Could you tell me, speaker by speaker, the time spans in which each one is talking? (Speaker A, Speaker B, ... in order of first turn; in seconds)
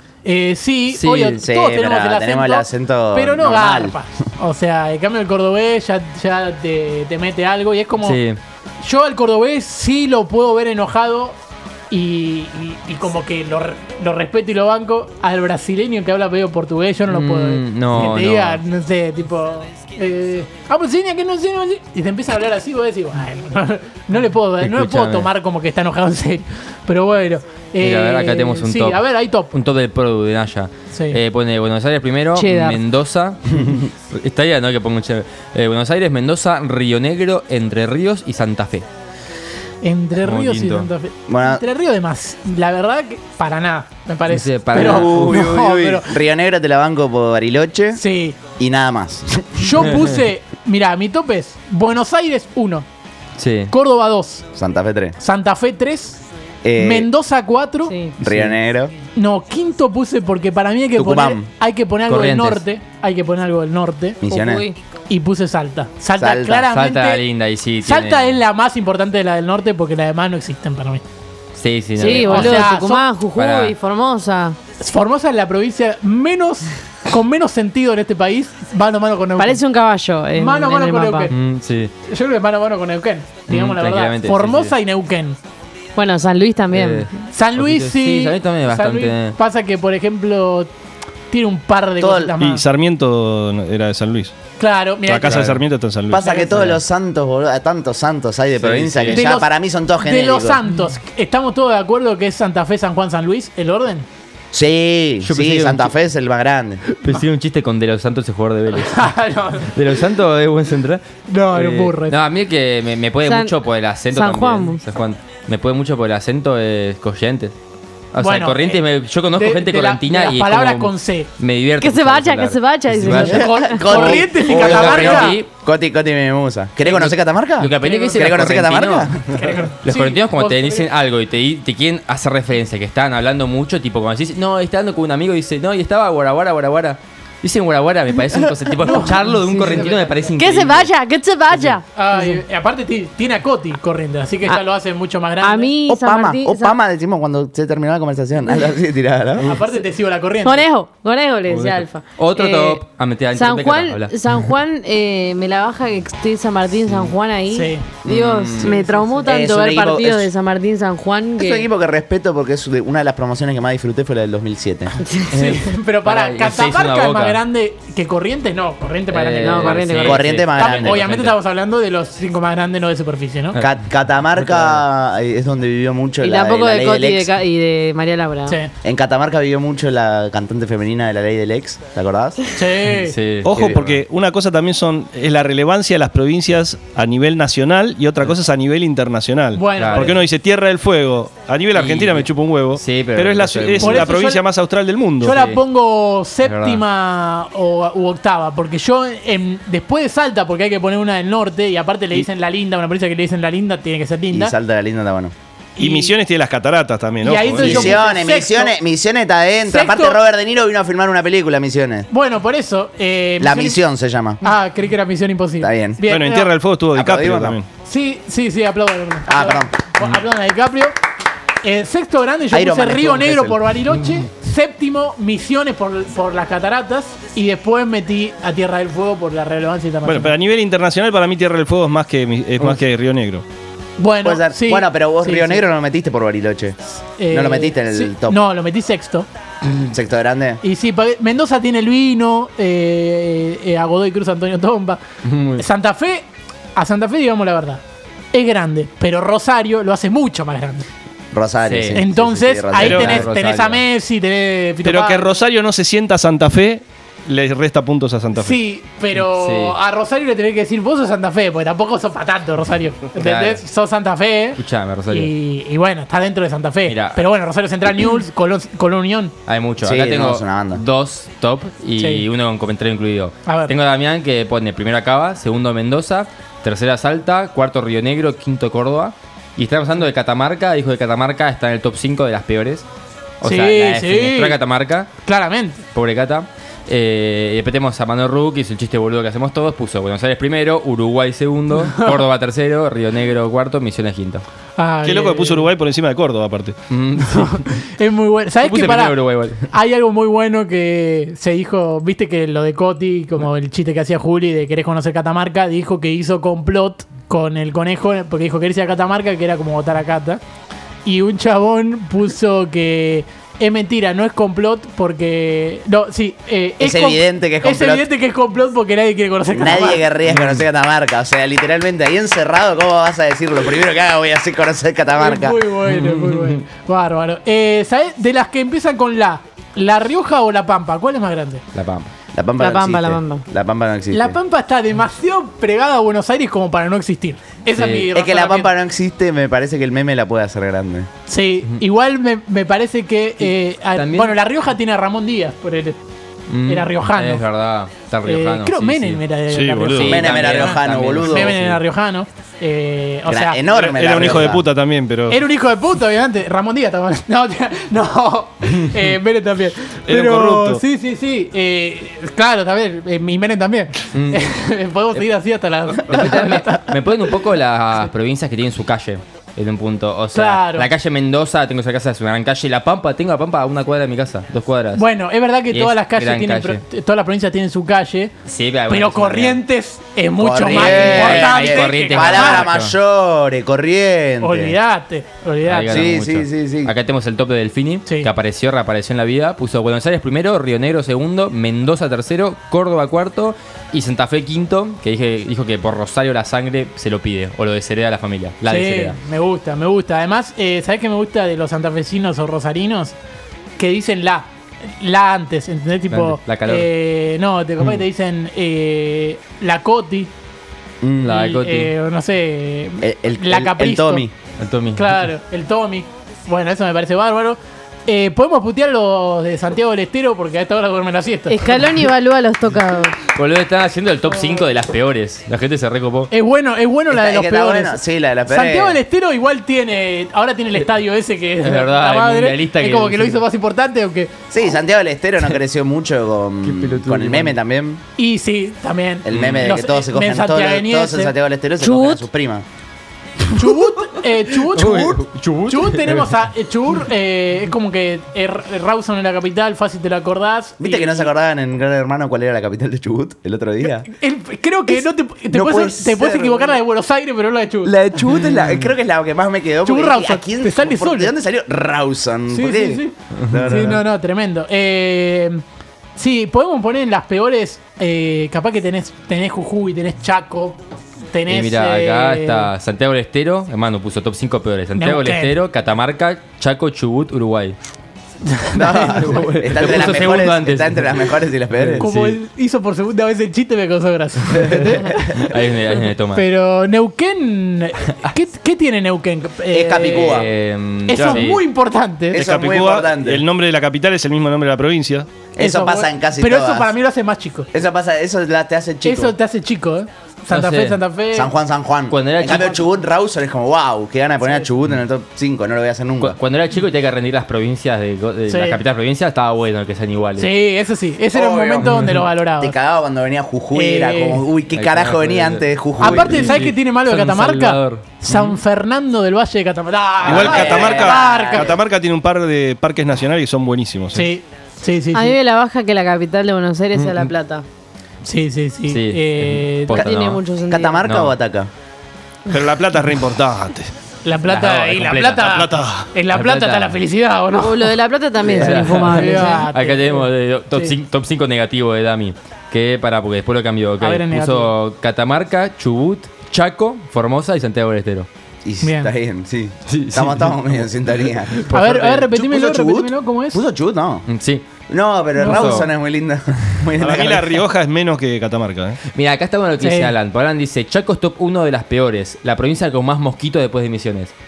Speaker A: 0.2-8.2, 8.8-11.4, 11.9-29.5, 30.9-31.2, 39.8-46.2, 47.9-48.4, 49.6-52.9, 53.7-54.5, 55.2-56.2, 56.8-57.9, 59.1-64.2, 65.1-67.2, 67.8-71.0, 72.0-73.1, 74.8-79.6, 80.3-81.3, 82.0-85.4, 87.3-90.7, 91.3-92.6, 94.6-95.5, 96.2-96.7, 99.1-104.0, 108.8-109.8, 111.3-112.2, 118.2-118.8, 119.3-121.3, 123.1-125.4, 127.8-128.3, 129.3-130.9, 138.8-140.3, 141.9-145.7, 149.4-150.7, 157.5-157.9, 158.6-159.2, 165.3-173.6, 182.5-183.1, 189.5-190.2, 193.8-194.4, 195.2-204.5, 205.8-206.2, 207.2-208.8, 209.6-210.2, 212.1-213.8, 214.4-216.5, 217.8-220.9, 221.6-230.3, 234.0-235.6, 237.2-239.3, 240.6-245.0, 245.6-247.8, 248.3-250.9, 251.9-255.3, 258.3-269.3, 272.0-272.3, 273.4-273.7, 283.4-284.6, 285.2-285.8, 291.8-292.2, 294.8-295.7, 297.4-310.4, 311.0-320.1, 325.1-331.6, 334.1-338.7, 341.3-346.0, 346.6-347.4, 348.2-353.6, 355.3-367.0, 370.3-370.9, 374.9-378.3, 378.9-382.7, 384.4-386.1, 398.6-403.1, 403.8-410.3, 411.2-414.2, 414.9-421.8, 426.3-434.3, 438.2-442.2, 443.5-451.3, 453.8-457.9, 459.8-461.3, 462.5-465.6, 466.1-470.8, 471.3-472.7, 474.9-475.6, 478.5-479.4, 482.0-485.4, 486.3-490.4, 491.1-492.4, 495.6-497.7, 499.0-501.5, 508.5-508.8, 510.4-512.7, 513.7-514.5, 516.0-521.8, 524.1-525.3, 528.2-530.1, 534.2-537.9, 538.6-541.0, 544.0-544.7, 548.8-549.1, 551.7-553.6, 555.4-555.7, 559.8-560.1
Speaker B: 0.9-1.4, 8.0-8.4, 17.1-18.6, 24.6-25.3, 27.8-38.9, 40.2-40.9, 44.3-45.5, 53.4-53.7, 58.2-58.5, 62.1-62.6, 66.7-68.3, 71.5-72.8, 73.3-73.7, 81.3-81.9, 83.5-84.7, 86.7-89.4, 95.3-95.6, 96.5-96.8, 98.6-99.2, 105.2-105.9, 106.9-117.5, 118.1-123.4, 124.4-125.5, 126.8-140.9, 151.5-154.1, 156.8-157.1, 158.0-158.8, 165.3-167.4, 169.1-171.4, 174.3-174.8, 182.8-184.0, 189.8-190.2, 191.7-194.1, 195.2-195.6, 196.4-196.8, 245.2-245.6, 251.6-252.0, 252.8-253.8, 259.1-259.8, 263.1-263.6, 264.6-265.3, 266.9-267.2, 269.4-282.9, 283.4-285.1, 285.9-294.4, 296.9-297.7, 298.6-299.7, 325.8-326.6, 331.7-332.1, 337.7-338.1, 343.4-344.4, 346.5-349.2, 349.9-351.8, 364.1-364.5, 365.9-375.1, 375.7-376.8, 378.4-379.6, 380.7-382.9, 385.6-399.2, 406.1-406.9, 411.2-411.9, 414.6-415.3, 423.3-426.3, 431.6-433.4, 436.6-437.6, 439.3-439.8, 444.6-446.3, 463.4-463.9, 471.5-477.8, 479.0-482.4, 485.3-486.4, 490.1-491.6, 500.5-501.0, 502.1-502.9, 506.2-510.5, 514.7-518.5, 526.9-527.3, 528.9-530.4, 531.0-531.4, 534.5-535.6, 536.3-537.0, 538.5-548.3, 549.9-550.9, 551.5-552.0, 554.3-554.7, 555.4-555.9, 559.1-564.3
Speaker C: 1.4-4.0, 41.3-41.6, 44.7-48.0, 48.6-49.9, 54.5-55.1, 56.6-57.1, 58.2-58.9, 61.0-61.5, 64.2-64.7, 66.2-66.6, 92.0-92.3, 96.1-100.6, 104.5-106.8, 123.1-129.4, 145.9-149.5, 159.2-160.3, 161.4-165.0, 170.0-171.1, 173.6-177.3, 178.8-182.4, 204.3-205.3, 207.5-212.1, 213.4-214.4, 215.6-216.0, 216.9-217.6, 219.3-219.8, 222.5-223.6, 234.2-238.4, 239.9-240.6, 251.3-253.3, 269.8-270.8, 316.8-318.1, 319.5-325.6, 332.3-334.4, 338.1-341.1, 350.0-351.6, 353.2-354.6, 380.4-384.8, 385.9-386.9, 411.0-411.4, 413.0-414.3, 427.1-429.0, 434.5-438.0, 439.2-442.6, 450.8-454.1, 454.9-456.8, 457.8-464.0, 478.7-482.1, 489.7-490.5, 492.3-493.4, 495.5-496.9, 497.7-499.3, 501.3-506.4, 511.3-512.0, 512.6-516.6, 520.2-521.8, 530.7-531.7, 548.6-554.2, 554.9-557.6
Speaker D: 32.3-32.8, 57.9-58.1, 64.3-64.8, 72.0-74.6, 79.4-81.3, 86.0-87.1, 113.2-113.6, 114.1-114.8, 121.8-124.2, 139.0-139.8, 140.3-142.4, 145.4-146.8, 150.4-152.8, 153.3-161.6, 165.0-165.3, 169.4-170.2, 176.2-178.6, 332.6-333.4, 421.5-423.2, 525.1-527.6, 529.9-531.0, 537.6-539.7
Speaker E: 92.4-94.3, 95.0-96.3, 183.4-195.4, 205.8-208.0, 216.0-217.7, 230.0-233.4, 252.8-253.2, 254.8-258.6, 295.0-296.8, 349.5-350.2, 353.7-355.4, 360.1-360.8, 492.3-495.3, 520.2-524.4, 532.5-533.9, 535.4-536.1, 557.0-559.0